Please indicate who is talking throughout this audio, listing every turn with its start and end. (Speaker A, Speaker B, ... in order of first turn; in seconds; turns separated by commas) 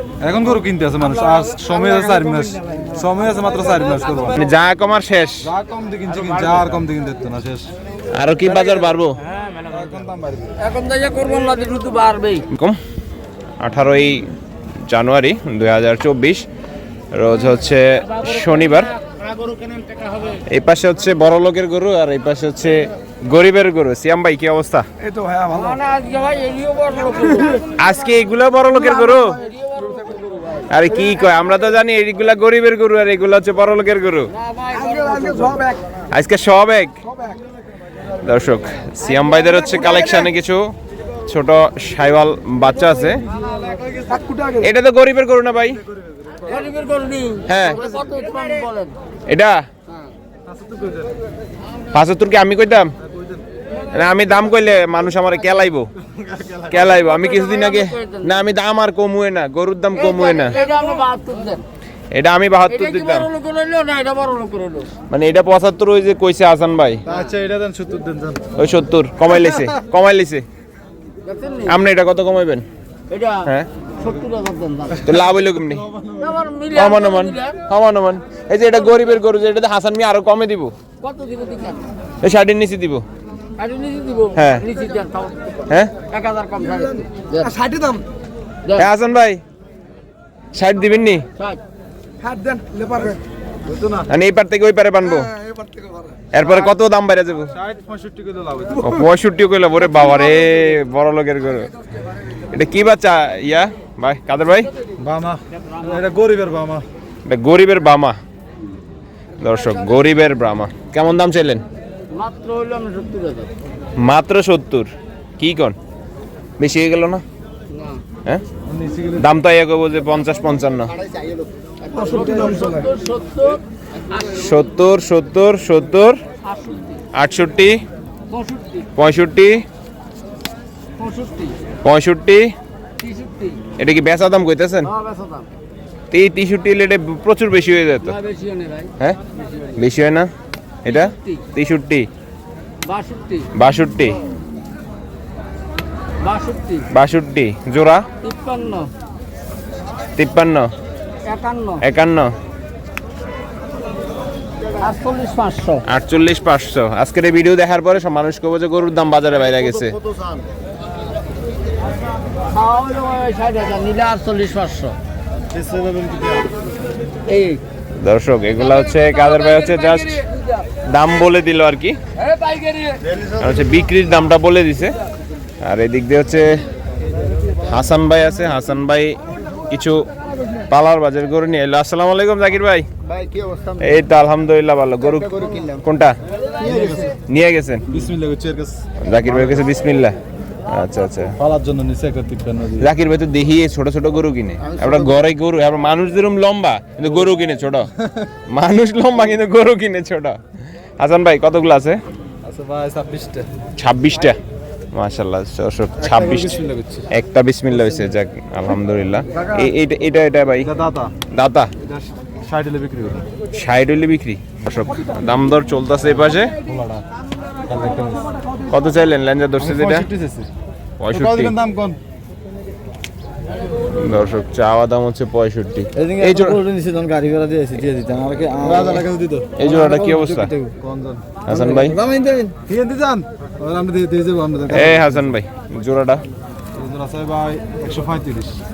Speaker A: 0.2-4.4, Speaker B: 4.4-5.5, Speaker A: 5.4-7.7, Speaker B: 8.1-9.2, Speaker A: 9.6-10.6, Speaker C: 10.6-12.5, Speaker B: 12.5-12.8, Speaker B: 13.6-14.3, Speaker B: 14.9-16.5, Speaker B: 17.1-18.9, Speaker C: 19.1-20.4, Speaker B: 20.5-24.9, Speaker A: 25.1-25.4, Speaker C: 25.4-27.9, Speaker B: 27.7-29.4, Speaker C: 29.1-30.6, Speaker B: 30.7-34.3, Speaker C: 34.4-35.7, Speaker B: 36.1-37.0, Speaker B: 38.2-40.6, Speaker B: 41.3-43.2, Speaker A: 43.5-44.6, Speaker B: 44.6-45.8, Speaker C: 46.4-49.0, Speaker B: 47.5-47.8, Speaker A: 47.8-48.1, Speaker B: 49.3-49.6, Speaker A: 50.5-51.1, Speaker B: 51.9-52.9, Speaker A: 53.1-53.4, Speaker B: 53.9-55.9, Speaker A: 56.2-56.8, Speaker B: 56.7-60.6, Speaker C: 57.0-58.4, Speaker C: 59.9-61.6, Speaker B: 62.1-63.3, Speaker C: 62.7-64.9, Speaker B: 65.1-67.0, Speaker A: 67.1-68.5, Speaker B: 68.5-70.5, Speaker C: 71.2-71.8, Speaker B: 71.7-72.7, Speaker C: 73.1-75.1, Speaker B: 75.0-75.9, Speaker A: 75.8-76.3, Speaker C: 76.2-77.6, Speaker B: 76.7-80.8, Speaker C: 81.0-81.9, Speaker B: 82.2-83.0, Speaker C: 83.6-87.6, Speaker B: 84.3-84.7, Speaker A: 87.6-88.0, Speaker B: 88.7-89.4, Speaker B: 90.5-91.2, Speaker A: 92.3-94.1, Speaker B: 94.1-95.3, Speaker B: 96.3-97.5, Speaker A: 97.5-99.0, Speaker B: 98.8-101.7, Speaker B: 102.5-104.7, Speaker A: 105.0-106.8, Speaker B: 107.3-108.2, Speaker B: 109.4-111.6, Speaker C: 112.1-113.5, Speaker B: 114.0-115.8, Speaker B: 116.6-117.2, Speaker C: 117.7-118.0, Speaker A: 118.7-119.3, Speaker B: 119.2-121.0, Speaker C: 121.8-124.2, Speaker A: 122.1-122.7, Speaker B: 124.2-126.2, Speaker C: 126.5-127.0, Speaker B: 127.1-127.8, Speaker C: 128.3-128.9, Speaker B: 129.0-129.7, Speaker C: 131.0-131.6, Speaker B: 131.8-132.6, Speaker C: 133.0-133.6, Speaker B: 133.8-134.9, Speaker C: 134.9-135.5, Speaker B: 136.1-138.2, Speaker C: 138.0-138.9, Speaker B: 139.8-140.3, Speaker B: 140.8-142.1, Speaker C: 140.9-141.4, Speaker C: 142.8-143.5, Speaker B: 143.5-144.2, Speaker C: 146.2-146.9, Speaker B: 146.9-148.1, Speaker C: 148.2-148.9, Speaker B: 150.2-150.7, Speaker C: 151.3-151.8, Speaker B: 151.8-152.3, Speaker C: 154.8-155.8, Speaker B: 155.8-160.0, Speaker C: 162.5-165.0, Speaker A: 165.5-166.5, Speaker C: 167.3-167.6, Speaker B: 168.0-170.2, Speaker C: 168.7-170.4, Speaker B: 170.9-172.0, Speaker C: 172.2-173.0, Speaker B: 173.4-175.0, Speaker B: 175.6-176.7, Speaker B: 177.6-180.1, Speaker B: 180.7-182.9, Speaker C: 183.1-183.8, Speaker B: 183.8-186.2, Speaker A: 186.6-187.2, Speaker B: 187.3-187.9, Speaker A: 187.9-189.7, Speaker B: 189.0-190.2, Speaker B: 190.7-191.4, Speaker A: 191.4-192.9, Speaker B: 192.8-197.9, Speaker B: 198.5-200.4, Speaker B: 201.0-202.0, Speaker A: 202.4-203.5, Speaker B: 203.8-204.4, Speaker B: 204.9-206.6, Speaker A: 206.0-207.1, Speaker B: 207.1-210.7, Speaker A: 209.3-209.7, Speaker A: 210.6-211.1, Speaker B: 211.3-211.7, Speaker A: 211.8-213.3, Speaker B: 213.5-216.5, Speaker A: 216.6-217.0, Speaker A: 217.7-218.3, Speaker B: 218.7-220.1, Speaker A: 219.6-220.5, Speaker B: 221.0-221.5, Speaker A: 221.1-222.0, Speaker B: 223.9-226.6, Speaker D: 226.0-229.1, Speaker A: 228.6-229.6, Speaker B: 229.6-230.5, Speaker D: 229.6-230.8, Speaker A: 230.7-231.4, Speaker B: 231.5-232.0, Speaker D: 231.5-232.6, Speaker A: 232.6-235.3, Speaker B: 234.7-236.2, Speaker A: 236.8-238.6